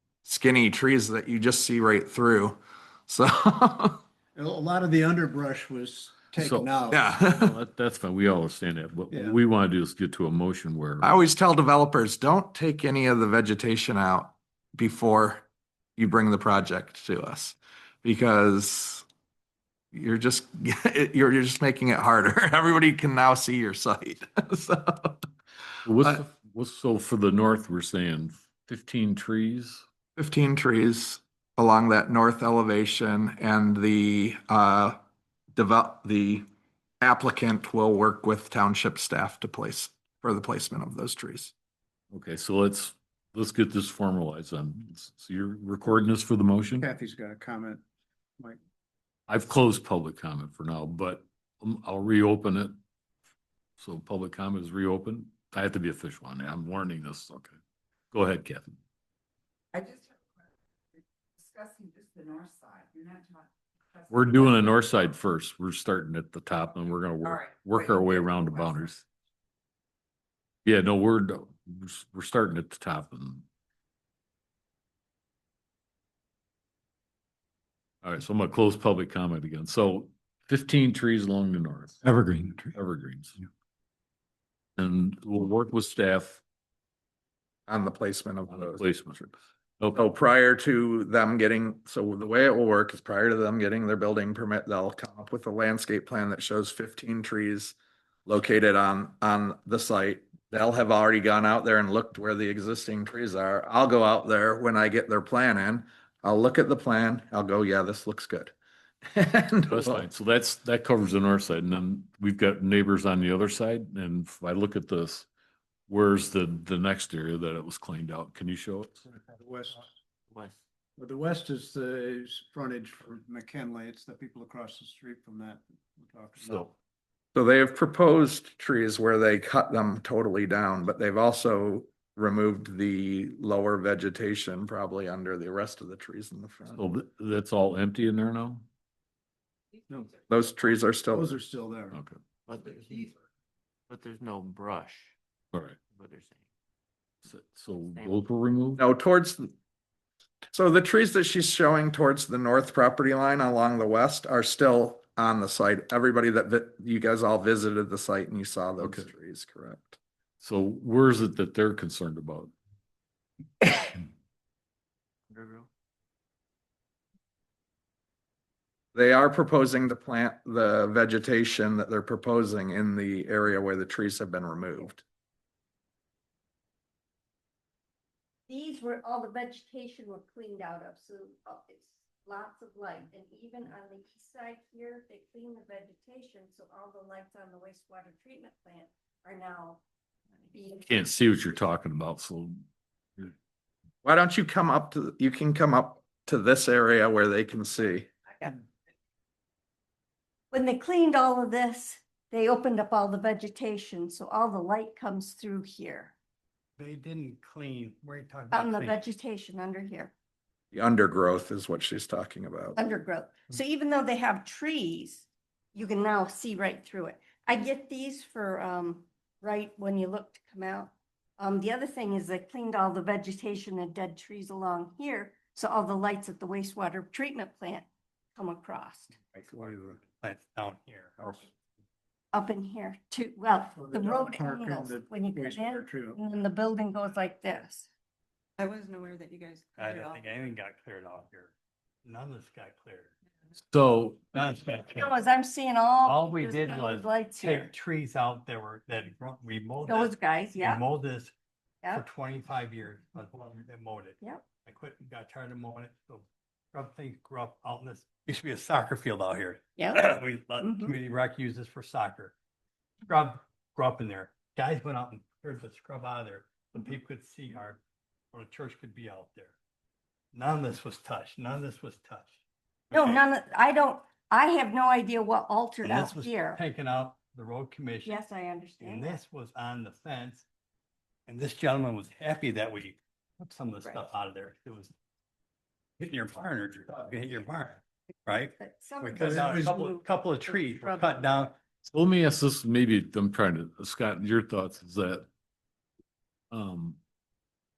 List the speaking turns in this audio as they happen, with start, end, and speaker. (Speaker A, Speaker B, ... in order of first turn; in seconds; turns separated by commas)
Speaker A: 0.2-4.0, Speaker B: 4.3-7.1, Speaker C: 6.4-11.2, Speaker A: 6.9-7.5, Speaker B: 9.1-9.4, Speaker A: 11.0-15.4, Speaker A: 16.0-19.1, Speaker A: 19.9-25.2, Speaker C: 25.9-29.8, Speaker A: 30.2-35.0, Speaker A: 35.5-36.5, Speaker A: 37.0-41.5, Speaker C: 42.1-46.9, Speaker B: 46.8-47.8, Speaker C: 49.3-52.8, Speaker C: 53.8-57.6, Speaker C: 58.1-58.8, Speaker D: 61.5-63.3, Speaker C: 64.1-69.0, Speaker C: 70.7-73.5, Speaker C: 78.0-82.0, Speaker B: 82.0-82.7, Speaker C: 82.7-83.4, Speaker C: 84.8-86.4, Speaker A: 87.7-89.3, Speaker C: 88.5-89.3, Speaker C: 89.8-90.1, Speaker A: 89.9-108.5, Speaker A: 109.1-110.0, Speaker C: 109.7-115.3, Speaker C: 115.9-119.0, Speaker B: 119.4-119.9, Speaker E: 120.3-120.6, Speaker B: 121.0-126.7, Speaker C: 126.4-126.7, Speaker A: 127.3-136.8, Speaker C: 136.7-138.7, Speaker A: 140.3-141.4, Speaker B: 141.1-142.0, Speaker C: 141.9-142.2, Speaker E: 142.5-143.2, Speaker E: 143.9-145.1, Speaker C: 145.5-145.8, Speaker E: 145.8-146.4, Speaker C: 147.3-148.8, Speaker E: 147.9-148.2, Speaker A: 148.8-149.5, Speaker A: 150.5-160.0, Speaker C: 158.8-159.1, Speaker C: 160.4-162.5, Speaker E: 165.3-165.7, Speaker A: 168.9-175.0, Speaker F: 178.5-189.8, Speaker F: 190.5-191.2, Speaker C: 190.9-192.6, Speaker A: 194.0-198.1, Speaker F: 200.5-206.1, Speaker G: 206.8-209.0, Speaker F: 208.5-210.1, Speaker A: 210.7-212.8, Speaker F: 212.8-229.2, Speaker G: 229.3-231.5, Speaker B: 229.5-230.0, Speaker F: 232.3-237.9, Speaker B: 233.8-236.2, Speaker D: 238.6-240.2, Speaker G: 239.8-241.5, Speaker G: 242.1-243.2, Speaker C: 243.6-244.3, Speaker G: 244.3-245.1, Speaker F: 244.9-247.7, Speaker G: 246.0-251.3, Speaker F: 249.9-250.8, Speaker G: 251.9-262.3, Speaker F: 259.8-260.0, Speaker F: 260.6-260.9, Speaker G: 263.1-267.8, Speaker G: 268.3-269.6, Speaker G: 270.3-272.4, Speaker G: 272.9-273.2, Speaker F: 272.9-276.6, Speaker G: 275.8-278.2, Speaker F: 278.1-279.1, Speaker G: 278.8-280.4, Speaker G: 281.3-284.9, Speaker G: 286.0-291.6, Speaker F: 288.6-291.3, Speaker B: 289.1-289.8, Speaker C: 291.9-295.3, Speaker C: 296.5-297.0